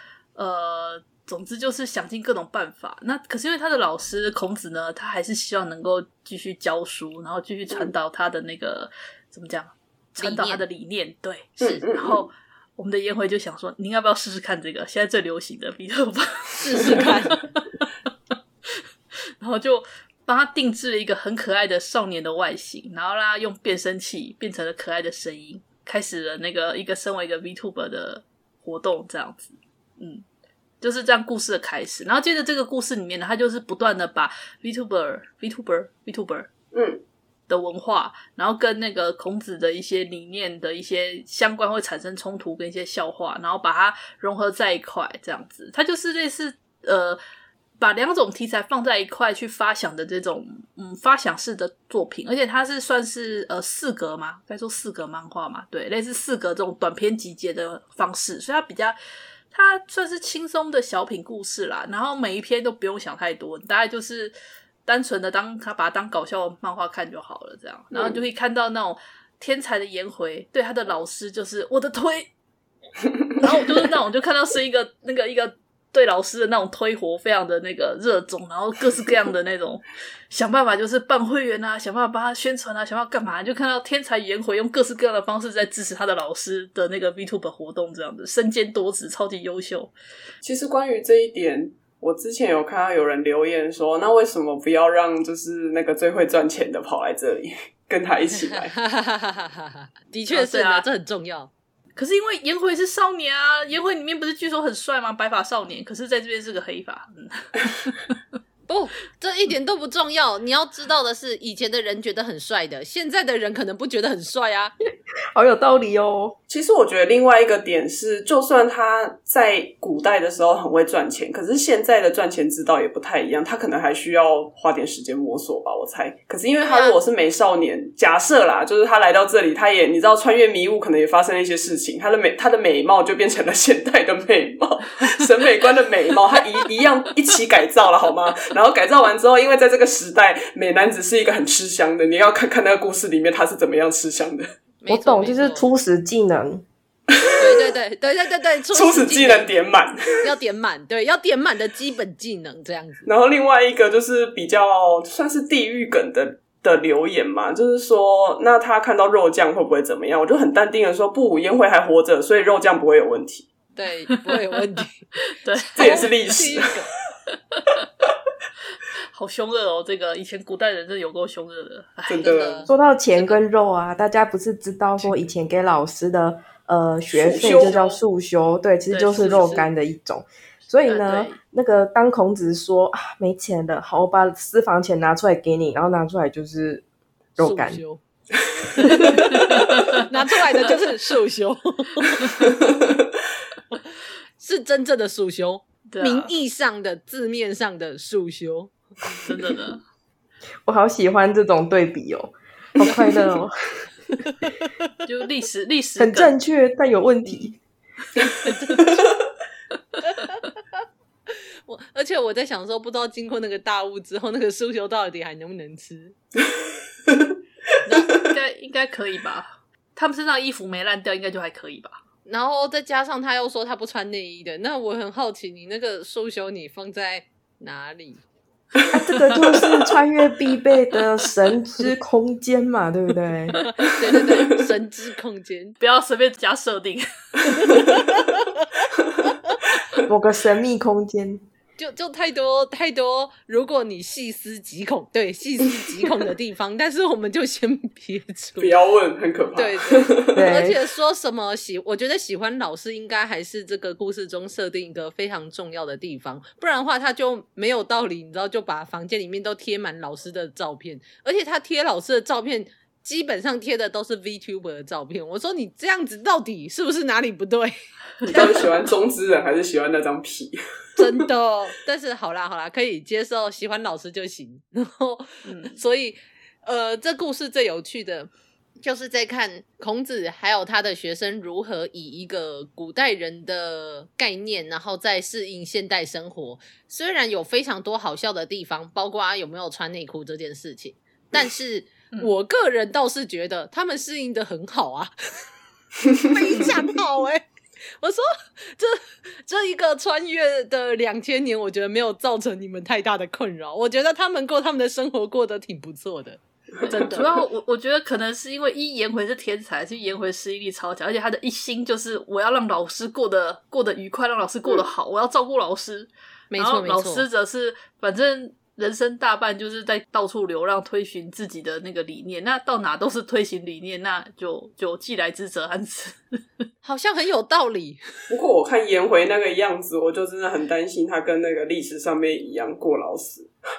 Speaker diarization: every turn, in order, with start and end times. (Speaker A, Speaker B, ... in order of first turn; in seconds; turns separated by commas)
Speaker A: 0.4-17.9, Speaker B: 10.2-10.6, Speaker B: 11.6-11.8, Speaker C: 11.6-12.3, Speaker B: 16.6-17.4, Speaker A: 19.4-30.2, Speaker A: 30.8-36.5, Speaker C: 36.7-37.0, Speaker A: 37.5-47.2, Speaker A: 47.8-59.0, Speaker A: 59.5-64.3, Speaker A: 64.9-72.3, Speaker C: 67.9-68.2, Speaker A: 73.4-89.9, Speaker C: 90.4-98.7, Speaker B: 98.5-101.5, Speaker A: 100.3-100.9, Speaker A: 102.0-108.2, Speaker B: 108.7-114.7, Speaker D: 115.3-116.4, Speaker C: 116.5-144.5, Speaker B: 126.6-127.0, Speaker B: 144.8-145.7, Speaker D: 144.9-146.7, Speaker C: 147.2-147.7, Speaker B: 147.4-149.6, Speaker C: 148.7-150.3, Speaker B: 150.2-153.1, Speaker C: 153.1-163.5, Speaker B: 163.8-165.1, Speaker A: 165.3-166.1, Speaker B: 165.7-166.9, Speaker C: 165.8-166.7, Speaker A: 167.5-167.9, Speaker A: 169.1-172.5, Speaker C: 172.1-172.6, Speaker B: 172.2-173.4, Speaker D: 172.7-186.8, Speaker C: 177.1-178.0, Speaker A: 178.9-179.7, Speaker B: 179.1-179.7, Speaker A: 180.9-181.4, Speaker D: 187.4-187.8, Speaker B: 187.4-188.0, Speaker B: 188.8-192.5, Speaker D: 188.9-189.1, Speaker A: 188.9-189.9, Speaker C: 192.6-192.9, Speaker B: 194.4-198.7, Speaker A: 195.9-196.3, Speaker A: 199.2-199.8, Speaker D: 200.7-203.6, Speaker A: 205.1-206.3, Speaker D: 206.0-207.6, Speaker C: 208.8-209.1, Speaker B: 211.7-216.2, Speaker B: 217.9-218.1, Speaker A: 218.2-222.0, Speaker B: 222.3-228.2, Speaker D: 228.9-233.6, Speaker B: 233.9-235.8, Speaker A: 235.8-237.8, Speaker B: 237.5-238.7, Speaker D: 240.1-241.4, Speaker B: 241.8-248.8, Speaker C: 248.6-250.4, Speaker B: 249.6-267.8, Speaker D: 250.3-250.8, Speaker A: 268.2-268.5, Speaker C: 268.3-271.1, Speaker B: 268.3-268.6, Speaker B: 271.0-278.3, Speaker A: 275.4-275.8, Speaker B: 278.8-295.1, Speaker B: 296.2-297.4, Speaker B: 298.0-307.2, Speaker A: 306.9-326.4, Speaker C: 306.9-307.2, Speaker B: 316.5-317.2, Speaker B: 326.8-328.0, Speaker C: 328.3-333.5